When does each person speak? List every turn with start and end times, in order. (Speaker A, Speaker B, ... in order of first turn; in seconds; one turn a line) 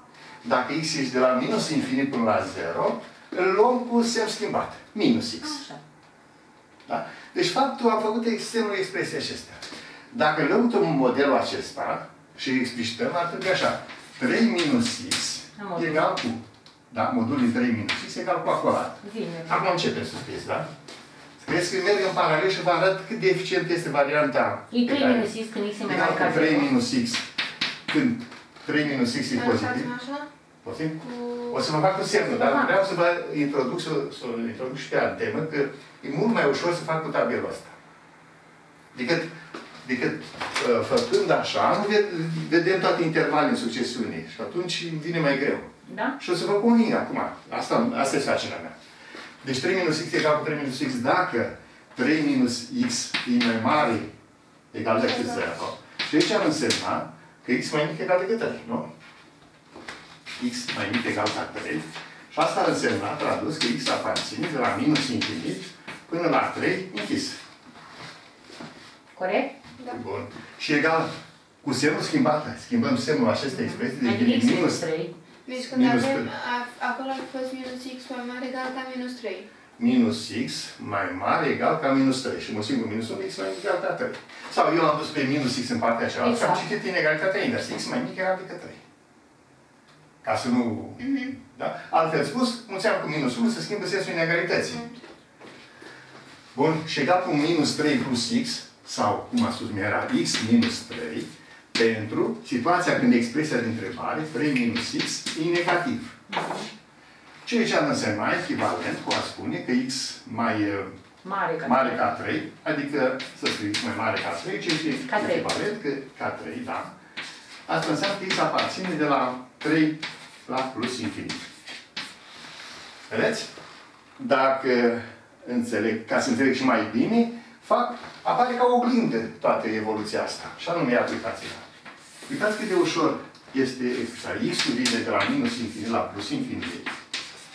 Speaker A: 0.4-5.6
Speaker B: 5.4-5.8
Speaker A: 6.9-20.7
Speaker B: 15.6-16.1
Speaker B: 19.0-19.7
Speaker A: 21.4-25.3
Speaker B: 24.7-26.7
Speaker A: 25.9-27.3
Speaker A: 27.9-29.9
Speaker C: 29.3-30.3
Speaker A: 30.6-37.7
Speaker C: 31.0-31.6
Speaker B: 32.1-32.7
Speaker A: 38.9-39.3
Speaker A: 39.8-48.7
Speaker B: 45.9-46.1
Speaker A: 49.4-54.1
Speaker A: 54.7-58.9
Speaker A: 60.4-67.4
Speaker B: 69.2-69.5
Speaker A: 69.8-74.8
Speaker B: 73.5-75.1
Speaker C: 75.4-79.5
Speaker A: 75.7-76.3
Speaker A: 79.8-88.8
Speaker B: 86.2-86.6
Speaker A: 90.2-94.8
Speaker C: 91.0-91.3
Speaker A: 96.5-106.2
Speaker B: 106.3-106.7
Speaker A: 107.4-110.9
Speaker B: 111.2-112.1
Speaker A: 111.6-116.9
Speaker B: 115.1-115.5
Speaker A: 117.7-121.4
Speaker A: 123.1-123.5
Speaker A: 124.2-131.6
Speaker A: 132.3-136.9